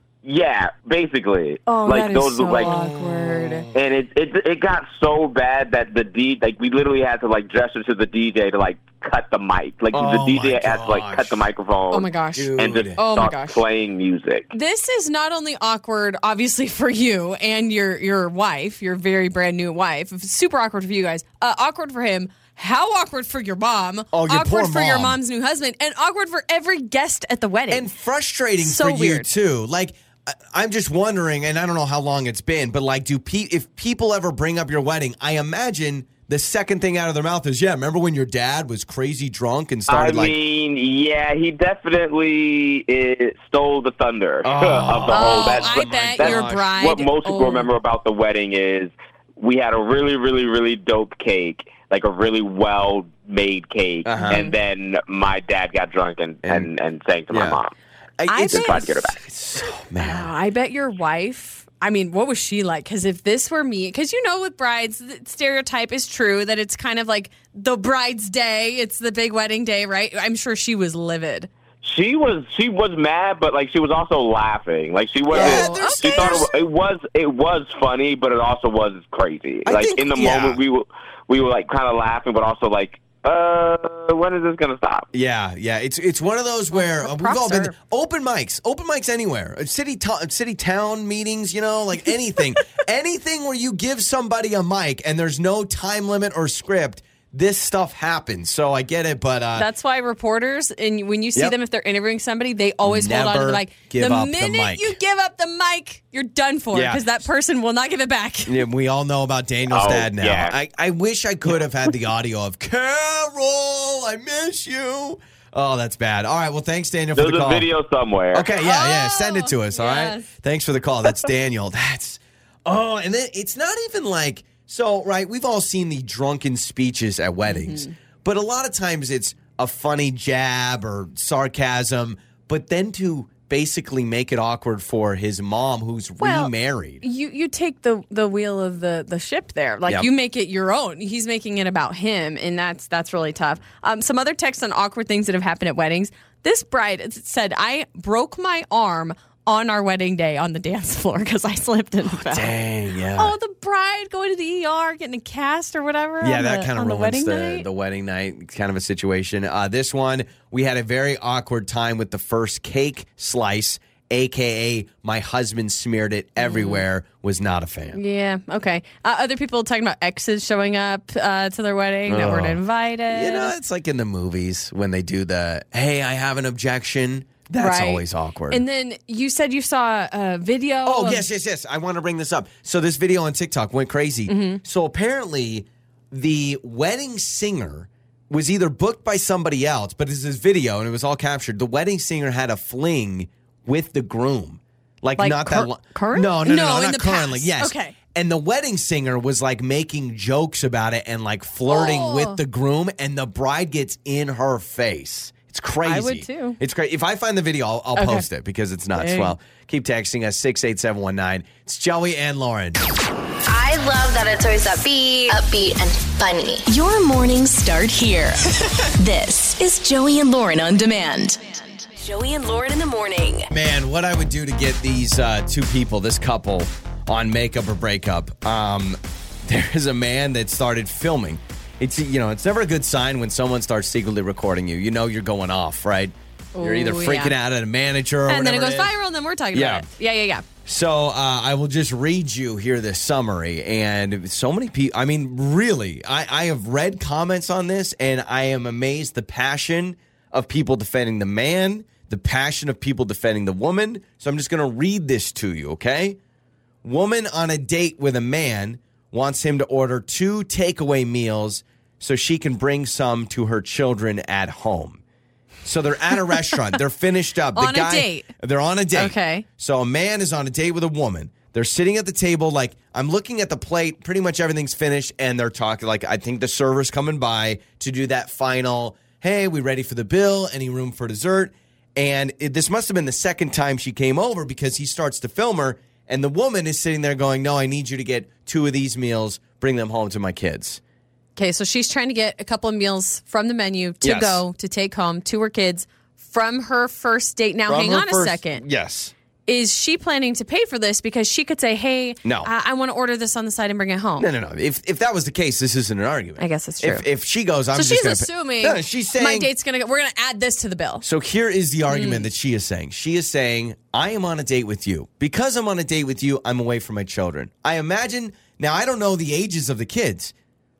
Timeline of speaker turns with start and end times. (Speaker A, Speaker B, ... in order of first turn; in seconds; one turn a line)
Speaker A: 0.2-2.7
Speaker B: 1.7-3.7
Speaker C: 2.6-3.8
Speaker A: 3.7-14.5
Speaker C: 9.9-11.5
Speaker B: 11.9-13.6
Speaker C: 12.4-13.0
Speaker B: 14.5-27.9
Speaker C: 24.1-25.2
Speaker C: 27.7-40.4
Speaker B: 28.6-29.3
Speaker A: 39.9-57.7
Speaker C: 44.4-46.7
Speaker B: 45.1-47.7
Speaker C: 54.0-54.4
Speaker B: 54.2-54.5
Speaker C: 56.4-56.7
Speaker C: 57.3-57.6
Speaker C: 58.2-60.3
Speaker B: 58.3-58.9
Speaker A: 58.5-59.2
Speaker B: 60.0-71.5
Speaker A: 71.8-85.1
Speaker C: 75.3-76.5
Speaker B: 75.3-76.5
Speaker C: 79.7-80.6
Speaker C: 85.1-99.7
Speaker B: 86.7-87.7
Speaker B: 99.6-108.6
Speaker C: 102.8-105.0
Speaker C: 106.7-107.2
Speaker C: 108.5-117.7
Speaker A: 109.7-110.6
Speaker A: 117.1-118.5
Speaker C: 118.3-137.0
Speaker B: 118.5-120.3
Speaker B: 127.5-127.9
Speaker B: 136.2-152.6
Speaker C: 152.1-153.3
Speaker B: 153.2-157.7
Speaker C: 156.2-168.0
Speaker B: 166.4-166.8
Speaker B: 167.9-173.5
Speaker C: 172.1-178.6
Speaker B: 177.6-181.2
Speaker C: 180.8-212.8
Speaker B: 184.3-184.6
Speaker B: 195.2-197.9
Speaker B: 201.7-202.4
Speaker B: 205.8-206.6
Speaker B: 207.9-208.3
Speaker B: 208.9-209.4
Speaker D: 213.5-216.6
Speaker E: 216.6-223.5
Speaker C: 223.5-239.0
Speaker B: 236.6-237.3
Speaker B: 238.3-240.4
Speaker C: 239.5-239.9
Speaker C: 240.6-256.2
Speaker C: 256.8-265.0
Speaker C: 265.6-290.8
Speaker B: 267.6-268.3
Speaker B: 268.9-269.4
Speaker B: 291.4-298.6
Speaker C: 294.0-294.4
Speaker C: 297.7-299.1
Speaker B: 299.4-304.3
Speaker C: 302.2-302.5
Speaker C: 304.2-309.5
Speaker B: 306.4-307.1
Speaker B: 307.7-311.1
Speaker C: 311.0-320.3
Speaker B: 311.9-312.3